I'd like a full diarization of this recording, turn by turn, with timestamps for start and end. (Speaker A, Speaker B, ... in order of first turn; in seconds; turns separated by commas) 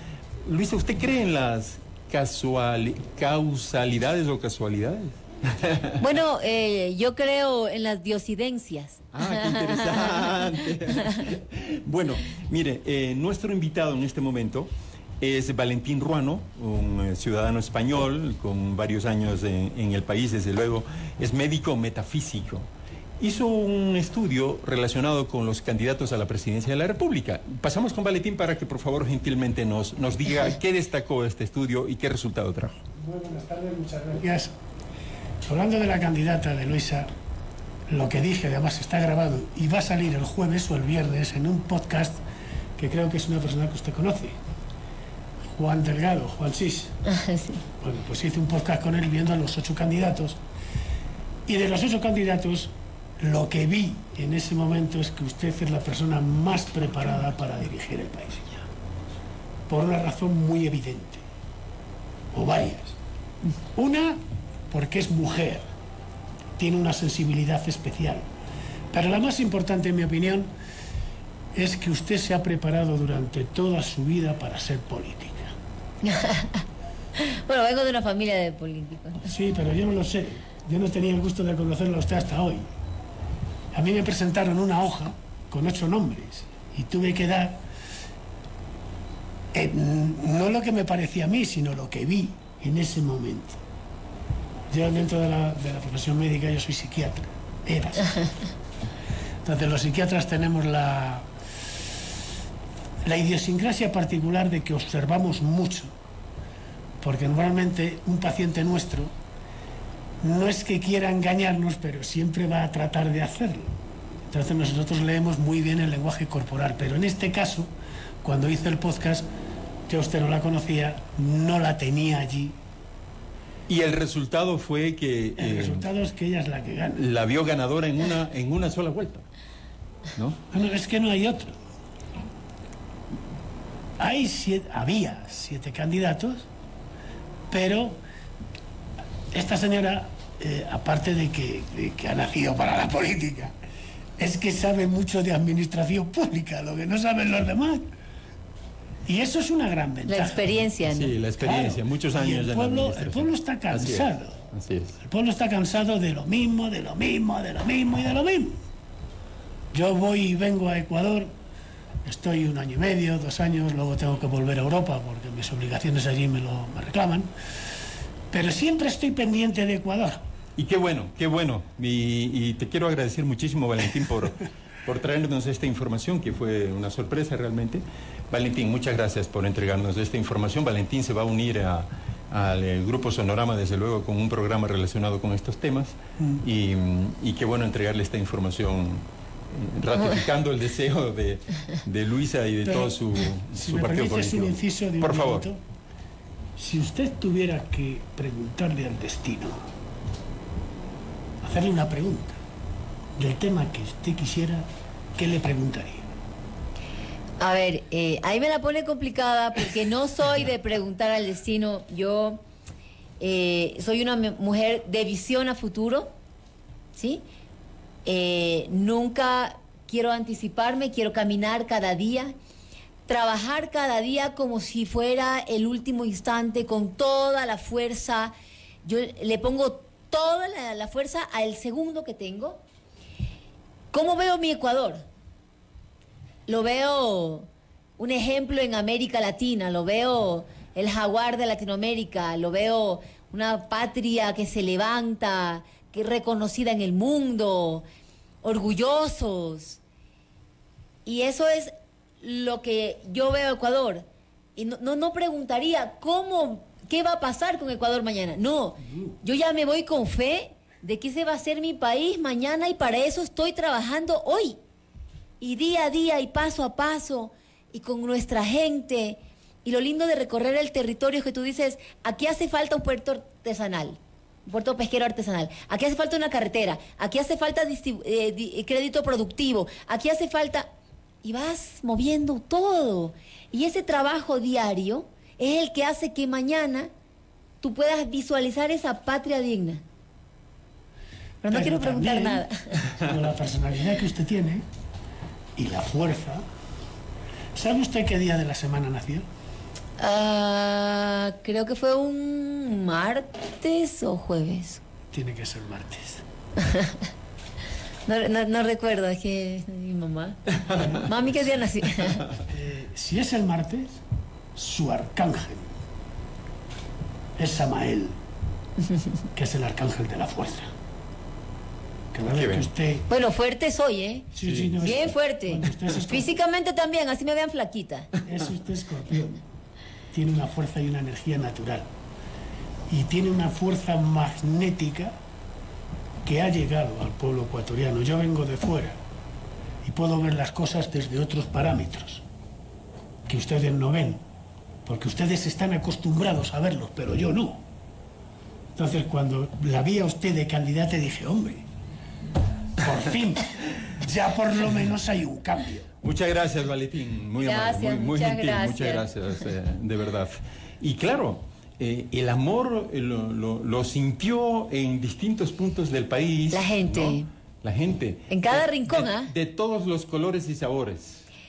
Speaker A: 0.4-6.0, Speaker B: 6.0-11.0, Speaker A: 9.1-22.7, Speaker A: 23.2-32.8, Speaker C: 33.0-34.5, Speaker C: 35.4-37.1, Speaker C: 37.9-42.2, Speaker C: 42.8-44.4, Speaker C: 45.4-46.9, Speaker B: 47.0-47.6, Speaker C: 47.8-50.4, Speaker C: 51.5-58.7, Speaker C: 59.7-61.2, Speaker C: 62.3-63.0, Speaker C: 63.8-65.7, Speaker C: 66.6-68.2, Speaker C: 68.9-70.5, Speaker C: 71.5-75.5, Speaker B: 76.0-76.6, Speaker B: 77.2-79.2, Speaker C: 79.2-82.7, Speaker C: 83.7-87.6, Speaker C: 89.5-93.6, Speaker C: 94.7-98.3, Speaker C: 99.4-101.3, Speaker C: 103.0-105.9, Speaker C: 107.0-109.1, Speaker C: 110.2-113.8, Speaker C: 114.3-117.7, Speaker C: 118.2-119.3, Speaker C: 119.9-122.6, Speaker A: 123.7-125.9, Speaker C: 125.4-127.0, Speaker A: 126.9-129.2, Speaker A: 130.1-130.4, Speaker C: 130.5-131.6, Speaker C: 134.0-136.5, Speaker C: 137.5-138.0, Speaker C: 139.3-143.5, Speaker C: 144.2-147.9, Speaker C: 149.1-150.6, Speaker B: 150.1-151.1, Speaker A: 150.8-155.0, Speaker C: 151.4-154.4, Speaker C: 155.0-158.6, Speaker C: 159.7-161.3, Speaker C: 162.0-167.3, Speaker C: 168.3-170.2, Speaker A: 170.6-195.5, Speaker C: 192.6-195.6, Speaker C: 196.6-199.6, Speaker C: 201.4-202.4, Speaker C: 203.2-206.1, Speaker B: 207.4-212.4, Speaker B: 213.2-216.1, Speaker B: 216.9-217.2, Speaker B: 218.0-222.3, Speaker B: 223.1-228.3, Speaker B: 228.8-232.6, Speaker B: 233.9-235.0, Speaker B: 236.5-247.8, Speaker B: 248.4-249.8, Speaker B: 251.1-254.1, Speaker B: 254.6-264.6, Speaker B: 265.4-280.7, Speaker B: 281.2-286.9, Speaker B: 287.6-289.8, Speaker B: 291.4-292.9, Speaker C: 291.4-294.6, Speaker C: 295.6-296.4, Speaker C: 297.5-299.2, Speaker B: 300.0-304.8, Speaker C: 305.1-306.2, Speaker B: 306.6-307.1, Speaker B: 308.1-312.3, Speaker C: 312.5-314.0, Speaker C: 314.6-315.7, Speaker C: 317.4-318.1, Speaker C: 319.3-320.7, Speaker C: 322.1-323.1, Speaker A: 322.2-322.7, Speaker B: 323.1-328.1, Speaker C: 324.3-326.3, Speaker A: 324.4-324.8, Speaker C: 328.2-329.4, Speaker C: 330.1-331.9, Speaker C: 332.9-335.1, Speaker C: 336.2-339.0, Speaker C: 339.8-342.2, Speaker C: 343.3-344.2, Speaker C: 344.9-347.6, Speaker C: 348.8-351.7, Speaker C: 352.8-355.9, Speaker A: 356.0-371.2, Speaker B: 357.4-359.1, Speaker B: 366.5-367.3, Speaker B: 368.3-369.3